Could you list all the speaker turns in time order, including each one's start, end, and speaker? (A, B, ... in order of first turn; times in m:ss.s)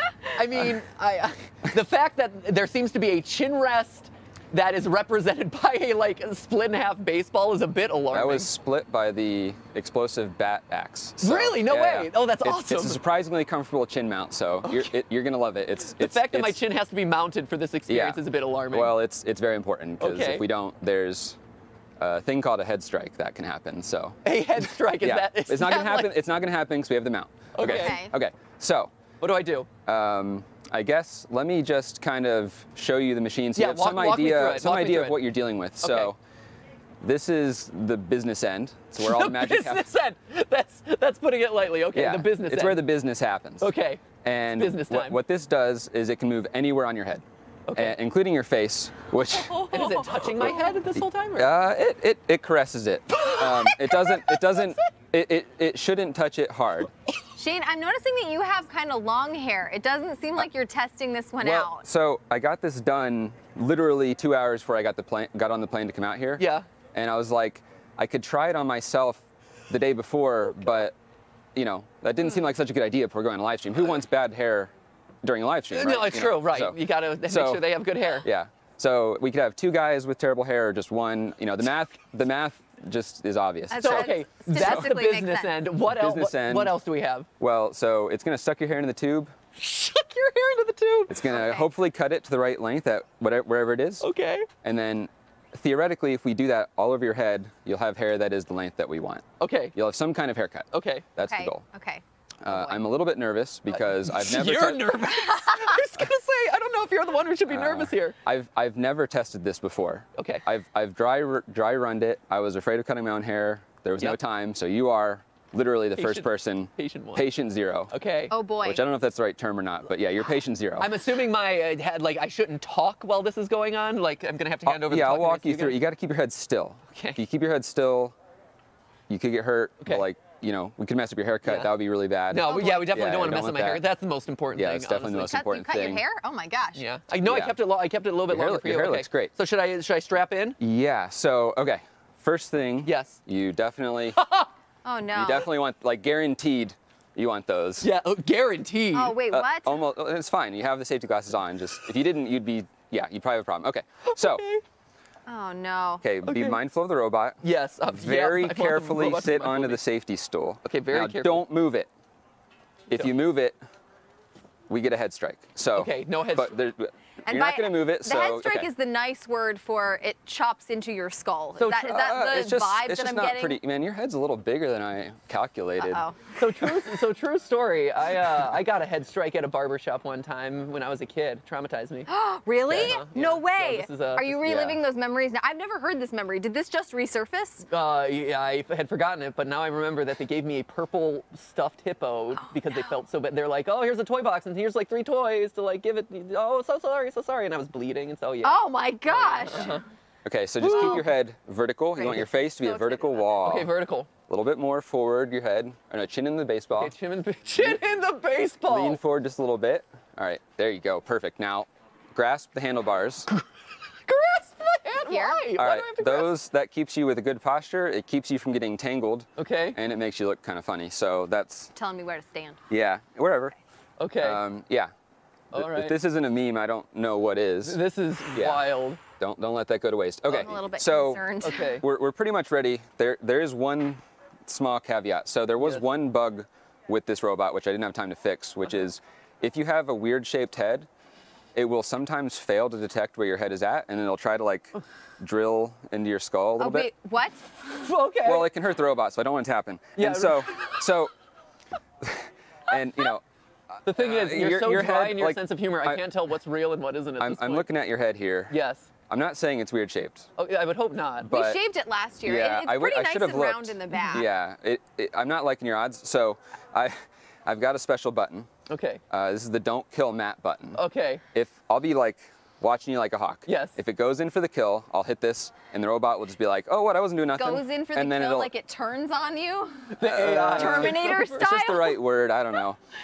0:00.3-0:08.5 A
0:08.1-0:16.6 B
0:11.2-0:13.0 A
0:14.6-0:14.9 A
0:16.0-0:18.9 A
0:17.9-0:21.4 B
0:20.0-0:20.4 A
0:22.0-0:24.2 B
0:24.2-0:26.1 A
0:25.0-0:28.9 B
0:27.5-0:28.0 A
0:27.6-0:28.1 C
0:29.2-0:29.7 A
0:29.8-0:36.2 B
0:33.6-0:35.2 A
0:35.8-0:36.1 A
0:37.0-0:39.8 B
0:39.0-0:42.8 A
0:41.9-0:43.7 B
0:43.6-0:45.2 A
0:44.2-0:47.2 B
0:47.7-0:47.9 A
0:47.7-0:49.6 B
0:49.5-0:51.5 A
0:50.2-0:56.9 B
0:53.2-0:54.8 A
0:57.4-1:01.8 C
1:01.4-1:10.9 B
1:06.4-1:06.6 A
1:11.5-1:14.7 B
1:15.2-1:16.8 B
1:15.7-1:18.3 A
1:17.3-1:17.6 B
1:18.2-1:24.9 B
1:23.7-1:25.6 C
1:23.8-1:27.3 A
1:25.9-1:26.7 B
1:27.4-1:29.3 B
1:29.6-1:31.2 A
1:31.1-1:34.0 B
1:31.3-1:31.7 C
1:34.0-1:34.5 A
1:34.6-1:41.6 B
1:39.4-1:39.7 A
1:40.7-1:41.1 A
1:41.2-1:42.8 C
1:42.4-1:45.0 B
1:43.7-1:48.2 A
1:45.3-1:45.8 C
1:47.5-1:57.9 B
1:50.2-1:50.4 A
1:56.0-1:57.2 A
1:57.9-1:58.3 A
1:58.3-1:58.8 C
1:58.6-2:00.9 B
2:00.8-2:05.8 A
2:04.6-2:08.1 B
2:06.9-2:07.2 A
2:09.1-2:13.8 B
2:11.4-2:11.7 A
2:12.3-2:15.4 A
2:12.4-2:12.9 C
2:14.6-2:16.0 B
2:15.3-2:16.8 C
2:16.8-2:20.6 A
2:17.2-2:17.6 B
2:18.3-2:19.3 B
2:20.6-2:24.2 B
2:22.8-2:23.2 A
2:24.2-2:24.5 A
2:24.8-2:25.5 C
2:25.1-2:27.9 B
2:27.8-2:29.2 A
2:28.9-2:29.8 C
2:29.3-2:34.4 B
2:34.0-2:34.6 A
2:35.3-2:36.0 C
2:36.0-2:41.9 B
2:36.2-2:36.6 A
2:37.4-2:39.8 A
2:40.6-2:41.4 A
2:42.9-2:43.6 B
2:44.7-2:48.7 B
2:45.7-2:46.6 A
2:47.2-2:53.6 C
2:51.6-2:52.0 A
2:51.9-2:56.0 B
2:55.8-2:56.2 C
2:56.4-3:02.1 A
3:02.1-3:07.6 C
3:02.7-3:03.0 B
3:02.7-3:04.4 A
3:04.4-3:04.8 B
3:07.7-3:19.8 A
3:12.3-3:13.0 C
3:18.4-3:19.8 C
3:20.2-3:23.7 B
3:20.6-3:21.0 A
3:22.0-3:22.3 A
3:22.1-3:23.4 C
3:23.4-3:24.1 A
3:24.3-3:26.9 B
3:26.8-3:29.0 A
3:28.7-3:33.3 B
3:34.1-3:36.3 A
3:35.1-3:35.4 C
3:35.5-3:41.7 B
3:39.4-3:39.8 A
3:41.7-3:42.6 C
3:42.7-3:43.5 B
3:44.0-3:44.4 A
3:44.2-3:44.9 B
3:45.5-3:45.9 A
3:45.5-3:47.8 B
3:47.6-3:49.0 A
3:48.3-3:48.6 B
3:49.2-4:00.9 B
3:50.3-3:51.7 C
3:51.4-3:51.8 A
4:01.5-4:06.9 B
4:06.6-4:07.4 C
4:07.6-4:08.5 A
4:08.2-4:11.1 B
4:10.0-4:10.7 A
4:12.0-4:16.0 B
4:13.8-4:17.7 A
4:17.2-4:18.6 B
4:18.5-4:18.9 A
4:19.1-4:20.3 B
4:20.4-4:21.3 A
4:21.2-4:21.6 B
4:21.3-4:24.3 C
4:22.2-4:28.5 B
4:24.0-4:24.2 A
4:28.7-4:29.0 A
4:29.1-4:30.8 B
4:30.7-4:31.2 A
4:31.3-4:38.5 B
4:33.5-4:33.8 A
4:37.3-4:40.0 C
4:40.0-4:41.5 A
4:40.0-4:42.8 B
4:40.5-4:42.0 C